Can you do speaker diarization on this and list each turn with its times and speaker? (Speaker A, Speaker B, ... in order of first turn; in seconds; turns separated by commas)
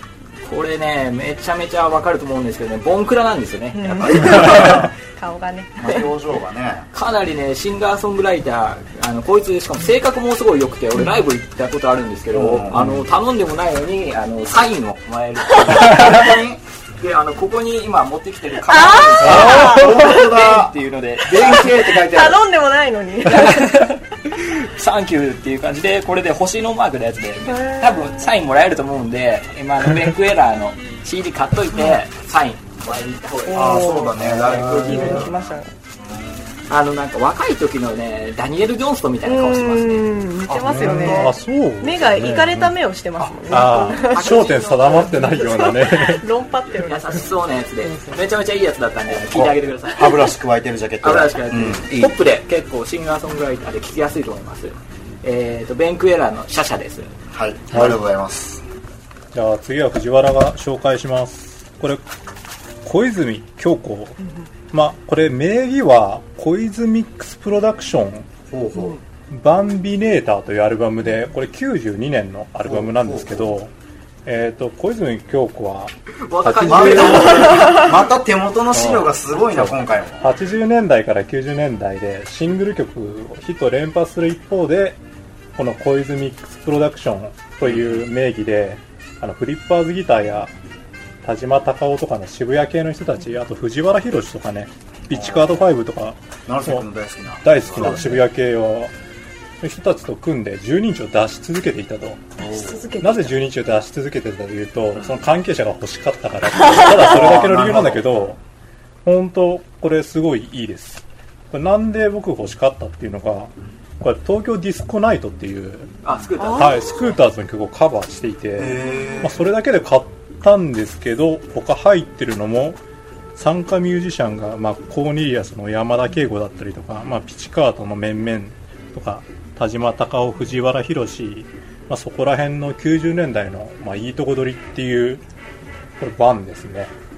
Speaker A: 0.4-4.7, Speaker B: 3.7-6.1, Speaker C: 4.1-4.9, Speaker C: 5.8-6.9, Speaker A: 6.9-16.3, Speaker C: 12.3-13.0, Speaker B: 15.6-15.9, Speaker C: 15.6-16.6, Speaker A: 17.0-21.7, Speaker B: 18.6-20.6, Speaker C: 19.2-22.4, Speaker D: 19.2-19.7, Speaker B: 21.4-24.0, Speaker A: 23.5-35.3, Speaker B: 27.5-27.9, Speaker B: 33.5-35.7, Speaker C: 33.5-36.4, Speaker D: 34.2-35.2, Speaker A: 36.7-40.1, Speaker B: 39.2-47.3, Speaker C: 40.5-41.3, Speaker D: 40.6-42.7, Speaker D: 43.5-46.2, Speaker A: 43.9-45.4, Speaker A: 46.7-50.2, Speaker B: 47.8-48.2, Speaker C: 49.1-52.1, Speaker A: 51.0-57.1, Speaker C: 57.3-58.6, Speaker D: 57.7-58.0, Speaker D: 59.3-62.0, Speaker D: 62.8-64.2, Speaker B: 64.2-64.5, Speaker D: 64.7-68.3, Speaker C: 68.5-69.0, Speaker D: 69.3-73.7, Speaker C: 72.6-73.5, Speaker D: 74.2-77.8, Speaker A: 76.2-78.0, Speaker C: 76.6-80.3, Speaker B: 77.5-77.8, Speaker D: 78.7-85.0, Speaker D: 85.5-90.5, Speaker C: 87.6-88.0, Speaker D: 91.2-96.9, Speaker C: 95.1-95.7, Speaker C: 96.5-98.2, Speaker D: 97.4-98.9, Speaker D: 99.6-102.3, Speaker B: 102.4-103.3, Speaker C: 102.4-102.8, Speaker D: 103.0-108.4, Speaker B: 106.6-107.0, Speaker C: 106.7-108.4, Speaker D: 109.0-115.9, Speaker A: 116.0-117.2, Speaker B: 116.4-116.8, Speaker D: 116.5-122.8, Speaker C: 118.6-119.4, Speaker D: 123.3-135.2, Speaker D: 136.0-136.9